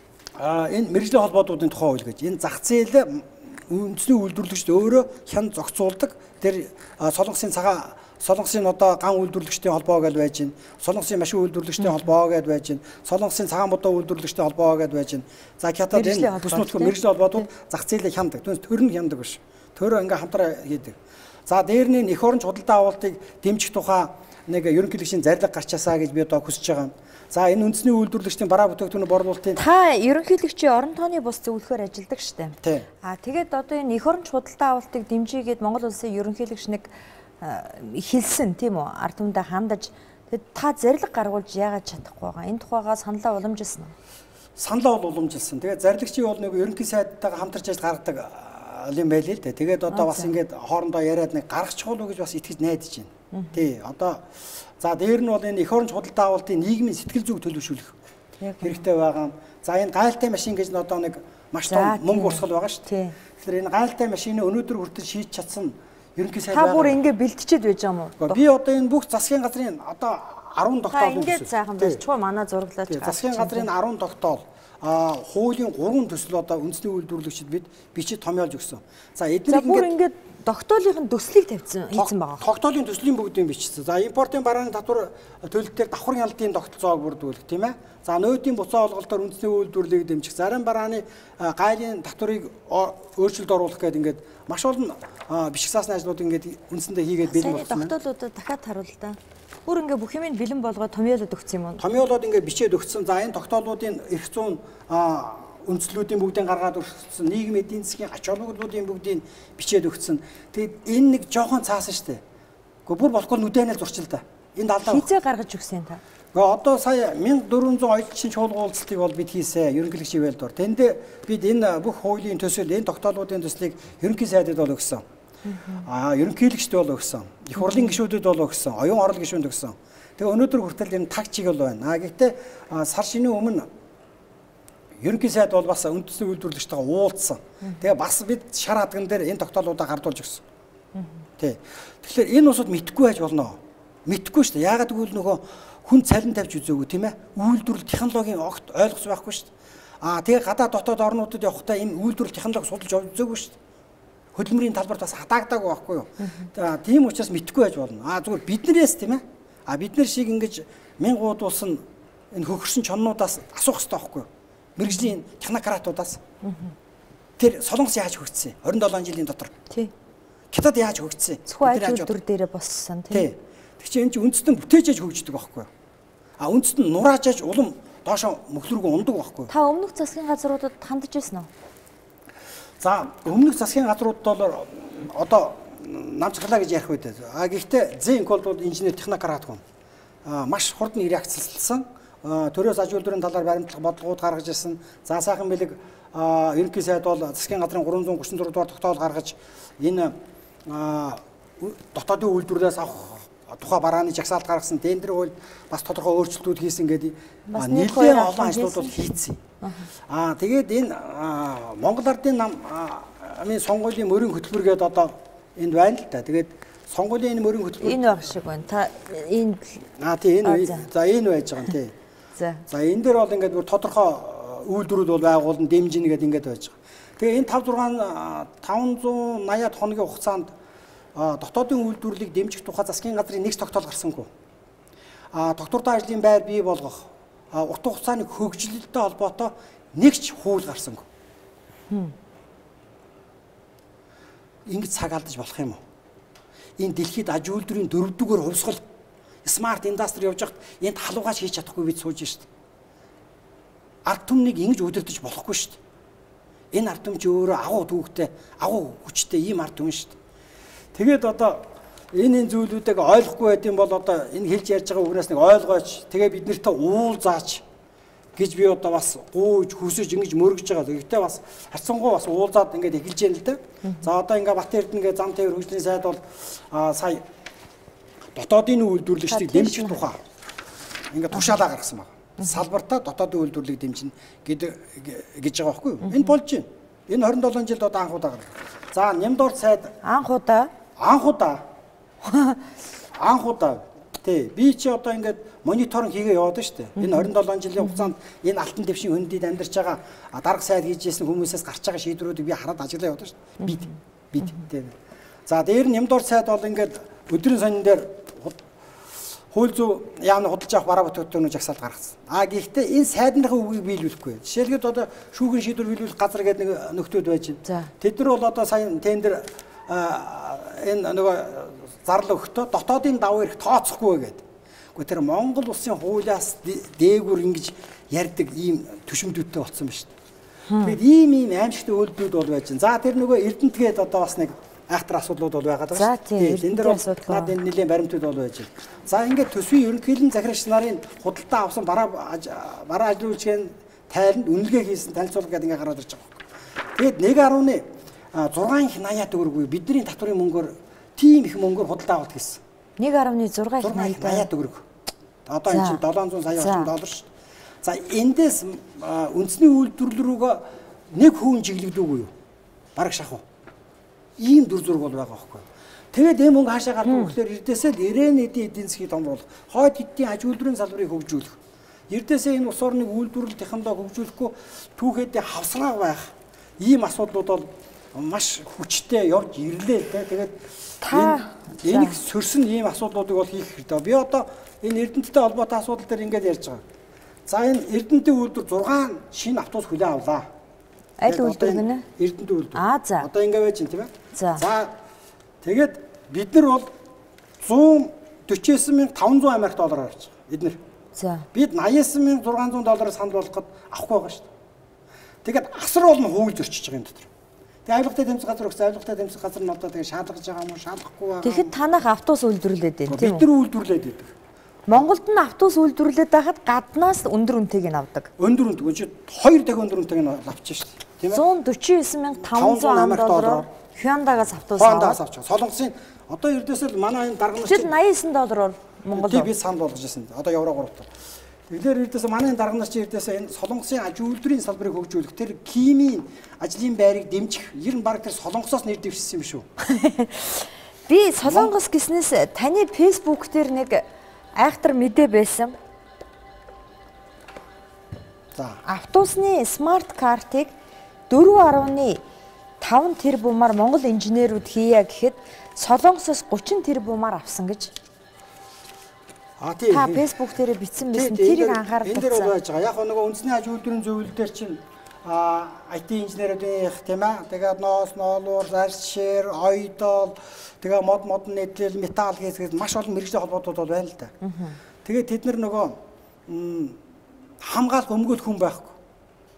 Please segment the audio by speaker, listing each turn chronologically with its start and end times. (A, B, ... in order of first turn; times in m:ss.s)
0:00.4-0:29.6 A
0:15.9-0:17.4 B
0:29.6-0:36.9 B
0:32.6-0:32.9 A
0:37.4-0:43.9 B
0:44.6-0:58.0 A
0:49.9-0:50.3 B
0:53.3-0:53.6 B
0:58.4-0:58.8 B
0:58.6-1:02.8 A
1:01.7-1:03.2 B
1:03.4-1:07.0 A
1:06.5-1:08.4 B
1:08.2-1:12.0 A
1:10.9-1:13.7 B
1:12.9-1:19.9 A
1:19.5-1:22.4 B
1:21.9-1:37.9 A
1:37.2-1:41.8 B
1:41.8-1:52.2 A
1:52.8-1:55.1 A
1:54.8-1:56.0 B
1:56.3-2:05.0 A
2:05.5-2:05.8 B
2:05.8-2:13.7 A
2:07.6-2:07.9 B
2:15.0-2:20.4 A
2:21.4-2:29.5 A
2:30.0-2:33.6 A
2:34.3-2:46.2 A
2:36.2-2:36.5 B
2:46.4-2:46.7 B
2:47.4-2:49.5 A
2:50.5-2:52.1 A
2:51.5-2:53.3 B
2:53.1-2:55.7 A
2:56.4-2:59.5 A
2:59.5-3:01.5 B
3:02.8-3:09.6 A
3:10.2-3:29.4 A
3:27.5-3:29.9 B
3:30.1-3:38.0 A
3:37.8-3:39.8 B
3:40.0-3:41.9 A
3:40.4-3:40.8 B
3:42.4-3:42.6 B
3:42.7-3:50.5 A
3:51.1-3:54.3 A
3:55.3-4:01.0 A
4:04.6-4:05.8 A
4:06.8-4:08.8 A
4:09.4-4:12.5 A
4:14.0-4:15.8 A
4:16.7-4:20.2 A
4:20.9-4:27.6 A
4:28.4-4:37.2 A
4:38.3-4:40.2 A
4:39.2-4:40.0 B
4:41.1-4:49.9 A
4:50.0-4:50.7 B
4:51.0-4:51.6 A
4:52.2-4:52.6 B
4:53.2-5:04.9 A
4:57.0-4:58.1 B
5:05.5-5:08.6 A
5:09.5-5:24.4 A
5:17.6-5:17.9 B
5:24.9-5:30.1 A
5:30.7-5:31.0 B
5:30.8-5:46.4 A
5:35.9-5:37.6 B
5:46.9-5:52.6 A
5:53.0-5:54.5 B
5:53.8-5:54.8 A
5:55.4-5:57.3 A
5:55.7-5:56.0 B
5:56.6-5:56.9 B
5:57.8-6:02.3 A
6:03.0-6:03.4 A
6:04.4-6:11.6 A
6:07.0-6:07.3 B
6:12.1-6:26.8 A
6:21.0-6:22.2 B
6:27.4-6:30.4 A
6:31.2-6:32.0 B
6:31.2-6:34.9 A
6:32.7-6:33.3 B
6:34.3-6:34.6 B
6:35.6-6:36.9 A
6:37.6-6:40.8 A
6:41.2-6:41.4 B
6:41.5-6:44.5 A
6:45.4-6:47.3 A
6:47.8-6:51.7 A
6:51.4-6:53.5 B
6:53.1-6:54.3 A
6:54.9-6:58.3 B
6:58.4-7:01.4 A
7:01.3-7:05.2 B
7:02.5-7:03.7 A
7:04.7-7:07.9 A
7:07.6-7:09.5 B
7:09.1-7:11.1 A
7:11.7-7:19.7 A
7:19.8-7:24.0 B
7:21.4-7:21.7 A
7:24.6-7:25.7 B
7:28.5-7:28.8 A
7:28.8-7:30.7 B
7:31.3-7:32.2 B
7:32.8-7:37.9 B
7:39.6-7:40.3 A
7:39.9-7:42.5 B
7:41.0-7:54.3 A
7:54.4-7:54.8 B
7:55.0-7:57.0 A
7:57.6-7:59.0 A